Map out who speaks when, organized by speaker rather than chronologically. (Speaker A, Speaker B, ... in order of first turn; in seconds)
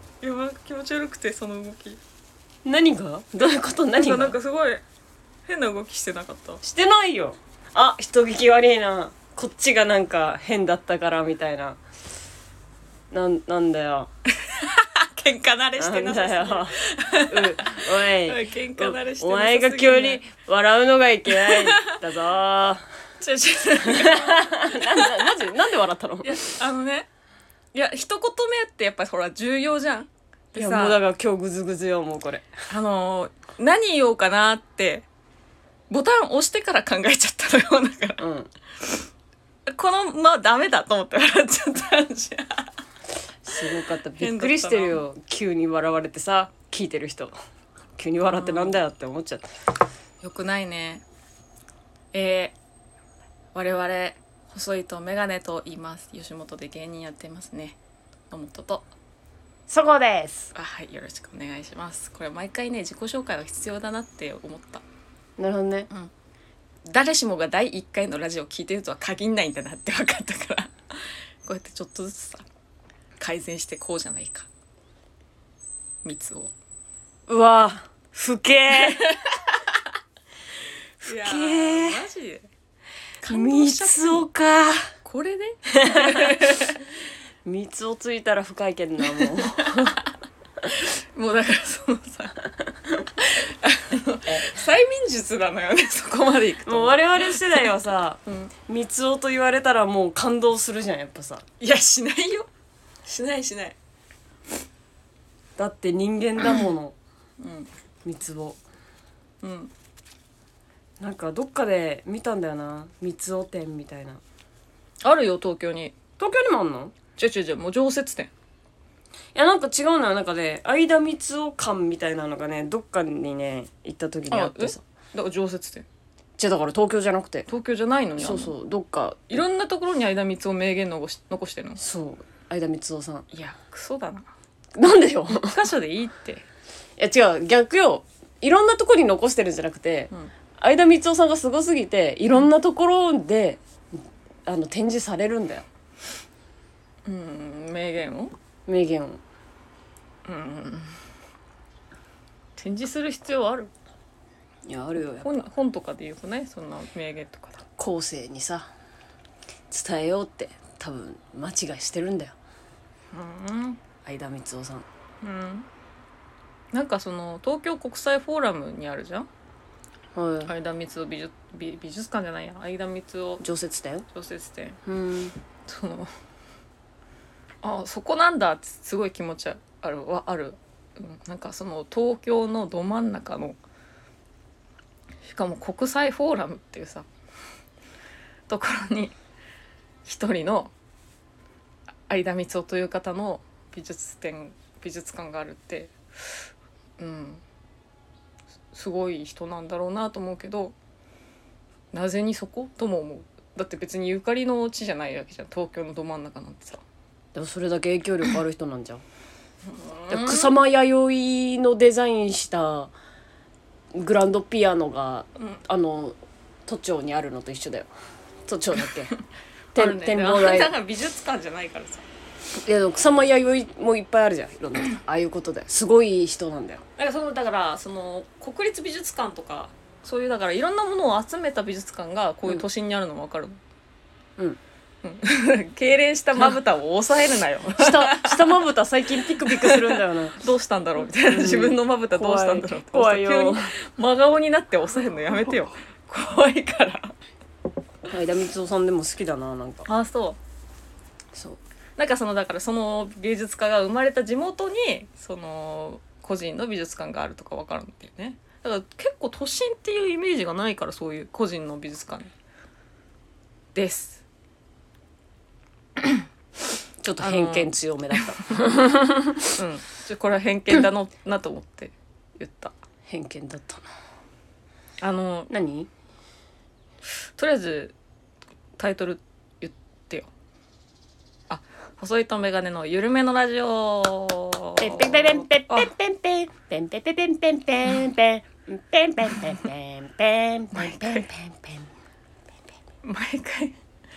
Speaker A: 0.2-2.0, 4.0-4.8, 5.5-6.6, 14.4-20.2, 21.3-22.0, 23.2-25.4, 26.2-27.1, 27.7-31.0, 32.7-35.0, 35.9-38.2, 39.7-42.7, 44.2-45.0, 48.3-48.8, 50.2-51.0, 52.1-52.5, 53.5-57.8, 58.3-58.9, 60.5-64.8, 66.9-72.4, 73.2-74.5, 76.0-76.5, 78.8-79.8, 81.0-82.5, 83.2-84.3, 85.0-86.8, 89.2-90.0, 90.7-97.7, 101.6-102.5, 103.0-103.8, 107.4-107.7, 109.4-109.7, 115.0-115.9, 117.2-118.3, 124.3-125.9, 127.5-128.5, 129.3-131.8, 133.3-134.3, 135.3-136.4, 147.1-148.3, 150.2-151.0, 152.6-153.7, 155.0-157.6, 163.1-163.8, 165.2-165.7, 166.7-169.3, 170.5-173.4, 174.1-174.8, 175.7-176.1, 177.6-183.6, 185.2-187.1, 188.5-189.2, 190.1-190.7, 192.1-196.3, 197.0-197.4, 198.7-200.7, 201.9-206.8, 209.7-210.6, 219.8-222.1, 227.0-233.6, 235.0-238.6, 239.2-247.1, 249.8-250.4, 252.0-262.3, 263.8-264.2, 267.2-268.6, 269.5-272.7, 275.0-275.5, 277.4-277.9, 278.8-280.3, 281.5-285.9, 290.7-291.3, 293.0-293.8
Speaker B: 2.6-4.4, 6.6-11.8, 13.1-14.1, 15.8-16.8, 17.3-22.8, 23.8-26.3, 30.6-32.5, 38.2-38.5, 43.4-47.3, 48.0-49.5, 59.7-60.5, 65.4-65.9, 77.3-79.2, 81.0-82.0, 83.2-84.9, 85.7-86.7, 87.4-90.0, 96.7-101.4, 105.6-107.0, 108.0-108.6, 111.0-114.2, 116.2-117.0, 119.3-124.8, 126.4-127.5, 128.2-129.4, 131.8-133.3, 134.8-135.6, 137.0-143.6, 144.5-145.7, 148.7-149.2, 154.7-155.3, 157.8-158.7, 159.7-162.4, 164.1-164.9, 170.2-170.5, 173.4-174.1, 174.8-175.3, 207.3-209.0, 210.1-212.9, 213.9-217.9, 218.5-219.1, 219.8-220.7, 222.6-226.8, 237.7-240.4, 241.2-243.7, 248.1-249.8, 251.3-251.6, 267.0-269.5, 273.1-273.8, 275.5-275.9, 284.8-291.9